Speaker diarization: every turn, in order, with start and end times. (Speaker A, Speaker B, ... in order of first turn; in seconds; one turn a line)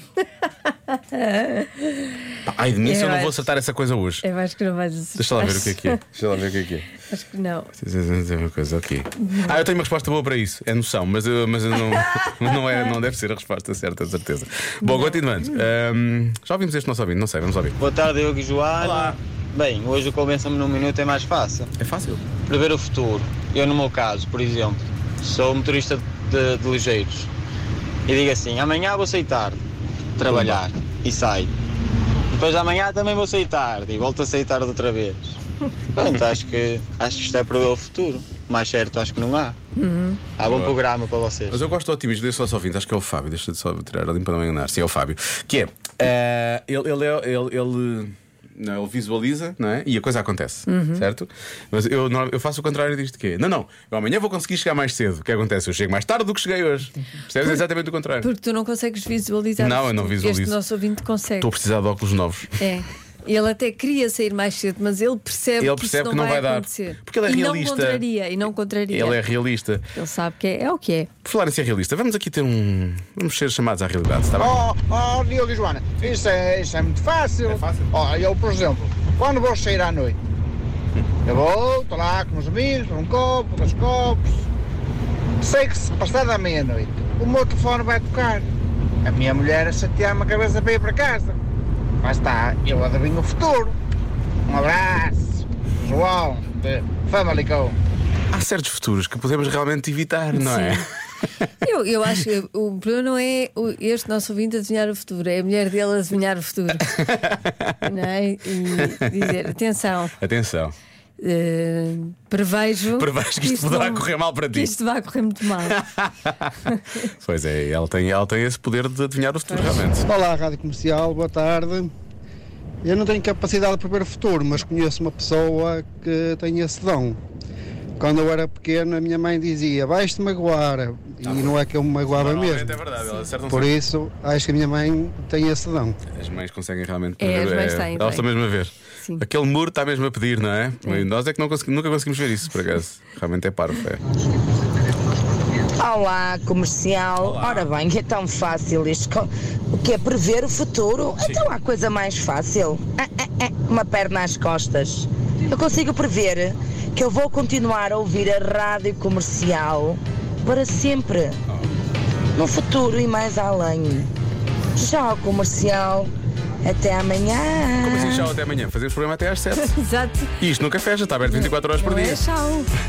Speaker A: 0.9-3.5
Speaker B: 2.5-4.3
Speaker A: 4.2-6.0
Speaker B: 5.2-6.9
Speaker A: 7.0-7.7
Speaker B: 7.8-17.8
Speaker A: 9.2-9.5
Speaker A: 14.8-15.7
Speaker C: 17.8-21.7
Speaker B: 18.8-19.2
Speaker B: 21.8-22.4
Speaker C: 22.4-27.3
Speaker C: 28.1-29.6
Speaker C: 30.2-31.5
Speaker B: 30.2-30.6
Speaker C: 32.3-35.4
Speaker C: 35.9-39.6
Speaker A: 39.8-40.2
Speaker C: 40.4-41.6
Speaker B: 40.5-40.8
Speaker B: 41.5-58.3
Speaker A: 50.7-51.1
Speaker A: 58.2-61.5
Speaker B: 59.6-60.6
Speaker B: 61.4-62.5
Speaker A: 62.6-69.3
Speaker B: 65.6-68.0
Speaker B: 68.9-69.9
Speaker A: 69.9-71.1
Speaker B: 71.2-74.6
Speaker D: 74.4-80.2
Speaker B: 77.5-77.9
Speaker D: 81.2-84.5
Speaker D: 85.4-88.5
Speaker D: 89.0-91.4
Speaker D: 92.0-93.8
Speaker D: 94.5-97.8
Speaker B: 98.3-100.9
Speaker A: 100.3-100.8
Speaker A: 101.6-106.9
Speaker B: 106.9-107.8
Speaker A: 107.8-110.2
Speaker B: 108.8-109.3
Speaker B: 110.2-110.8
Speaker A: 111.2-115.8
Speaker B: 113.0-114.8
Speaker B: 115.7-116.5
Speaker B: 117.2-120.1
Speaker A: 119.5-119.8
Speaker E: 120.0-121.9
Speaker E: 122.8-127.2
Speaker E: 128.0-132.8
Speaker B: 131.2-133.7
Speaker E: 133.5-136.0
Speaker B: 136.2-144.0
Speaker A: 137.2-138.3
Speaker A: 139.0-139.3
Speaker F: 145.8-161.4
Speaker B: 147.2-147.7
Speaker F: 162.3-164.1
Speaker F: 164.8-166.1
Speaker F: 166.6-168.3
Speaker B: 167.8-169.8
Speaker A: 169.6-170.3
Speaker B: 170.4-172.2
Speaker A: 171.3-172.7